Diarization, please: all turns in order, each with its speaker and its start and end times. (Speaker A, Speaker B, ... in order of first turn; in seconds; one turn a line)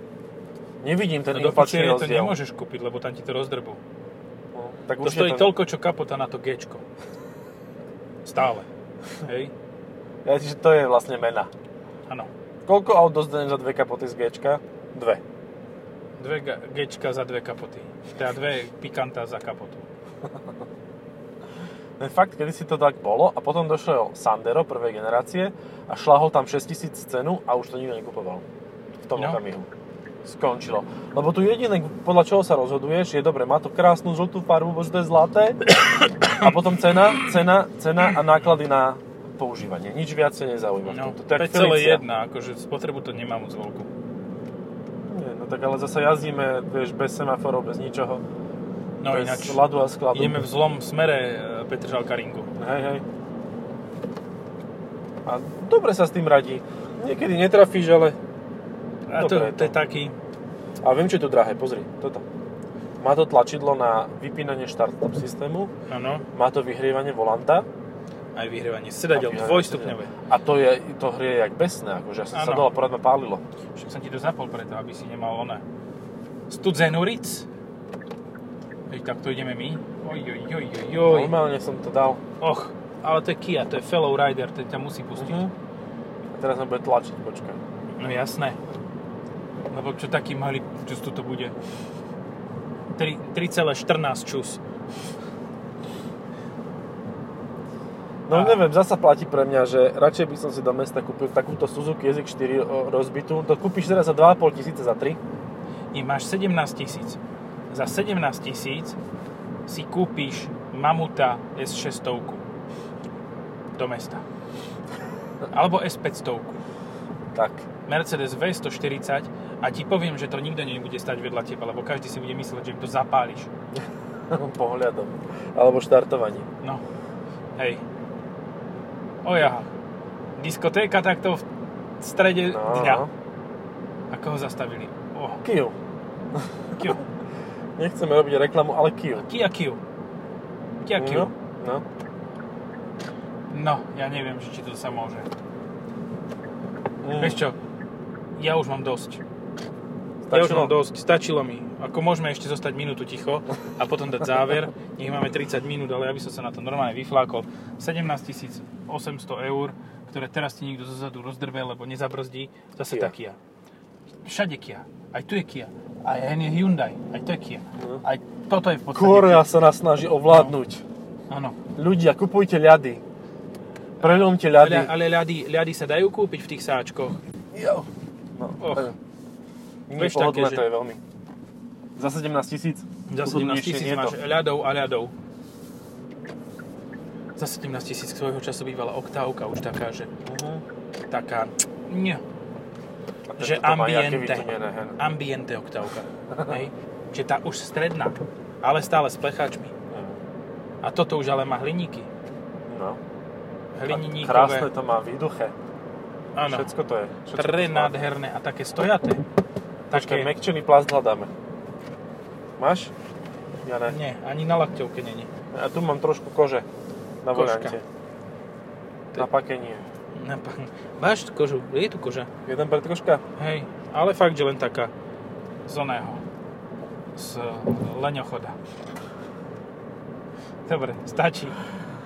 Speaker A: 0.8-2.4
Speaker B: 1.3-3.8
Speaker A: 4.5-5.5
Speaker B: 5.0-6.8
Speaker B: 8.2-8.7
Speaker B: 9.2-9.5
Speaker A: 10.2-11.5
Speaker A: 12.7-15.2
Speaker B: 16.2-19.8
Speaker A: 22.0-28.4
Speaker A: 29.0-29.7
Speaker A: 30.2-35.7
Speaker B: 35.9-36.5
Speaker A: 36.2-42.0
Speaker B: 40.9-43.9
Speaker A: 45.0-48.2
Speaker B: 49.0-49.6
Speaker A: 49.1-50.4
Speaker B: 50.1-52.5
Speaker A: 52.5-53.0
Speaker A: 55.2-58.2
Speaker B: 59.1-60.1
Speaker A: 59.1-59.8
Speaker A: 60.8-62.2
Speaker A: 63.0-65.7
Speaker B: 65.9-66.2
Speaker A: 66.3-67.7
Speaker B: 68.3-70.1
Speaker A: 69.1-73.4
Speaker B: 72.3-72.7
Speaker B: 73.8-75.6
Speaker B: 76.5-77.5
Speaker B: 78.9-81.3
Speaker A: 81.0-82.2
Speaker B: 82.4-85.4
Speaker A: 85.2-85.5
Speaker A: 86.3-87.6
Speaker B: 88.0-88.6
Speaker B: 89.7-91.5
Speaker B: 93.0-94.6
Speaker A: 98.3-105.2
Speaker B: 98.3-98.6
Speaker B: 105.9-107.2
Speaker B: 107.7-109.0
Speaker B: 109.7-112.4
Speaker B: 113.7-114.2
Speaker B: 115.5-116.6
Speaker A: 117.3-117.7
Speaker B: 117.8-123.5
Speaker A: 124.3-126.5
Speaker B: 127.6-127.8
Speaker B: 129.2-129.7
Speaker B: 130.4-131.4
Speaker B: 132.0-133.1
Speaker A: 132.5-133.1
Speaker B: 134.1-135.4
Speaker A: 135.4-135.7
Speaker A: 136.3-137.0
Speaker B: 136.8-137.0
Speaker A: 137.8-139.2
Speaker B: 139.2-139.8
Speaker B: 140.8-141.3
Speaker A: 140.9-141.8
Speaker B: 143.5-145.3
Speaker A: 147.0-147.4
Speaker B: 147.2-147.6
Speaker B: 148.4-149.2
Speaker A: 150.2-150.7
Speaker B: 150.3-163.4
Speaker A: 162.9-163.1
Speaker B: 164.2-169.5
Speaker A: 167.8-168.0
Speaker A: 168.9-170.8
Speaker B: 170.3-170.6
Speaker B: 171.3-171.6
Speaker A: 171.7-173.0
Speaker A: 174.0-174.9
Speaker B: 174.0-177.2
Speaker A: 177.5-178.9
Speaker B: 178.6-178.9
Speaker A: 179.9-181.0
Speaker B: 179.9-180.6
Speaker A: 182.0-184.2
Speaker B: 183.1-185.1
Speaker B: 187.4-190.1
Speaker A: 190.2-190.6
Speaker B: 191.1-192.2
Speaker A: 193.3-195.0
Speaker B: 193.4-199.7
Speaker A: 196.3-196.6
Speaker A: 199.9-200.2
Speaker B: 200.8-202.1
Speaker A: 202.7-203.0
Speaker B: 203.8-204.7
Speaker A: 203.9-205.5
Speaker B: 206.3-206.7
Speaker A: 206.5-208.1
Speaker B: 207.3-209.2
Speaker B: 209.9-210.3
Speaker A: 209.9-211.3
Speaker A: 212.6-212.9
Speaker A: 213.6-214.0
Speaker B: 213.9-215.3
Speaker A: 215.5-216.7
Speaker A: 217.2-217.8
Speaker B: 217.3-217.8
Speaker A: 219.1-219.8
Speaker B: 220.1-222.3
Speaker A: 222.4-223.2
Speaker B: 223.4-224.9
Speaker B: 225.7-226.2
Speaker B: 227.2-228.6
Speaker B: 230.7-231.6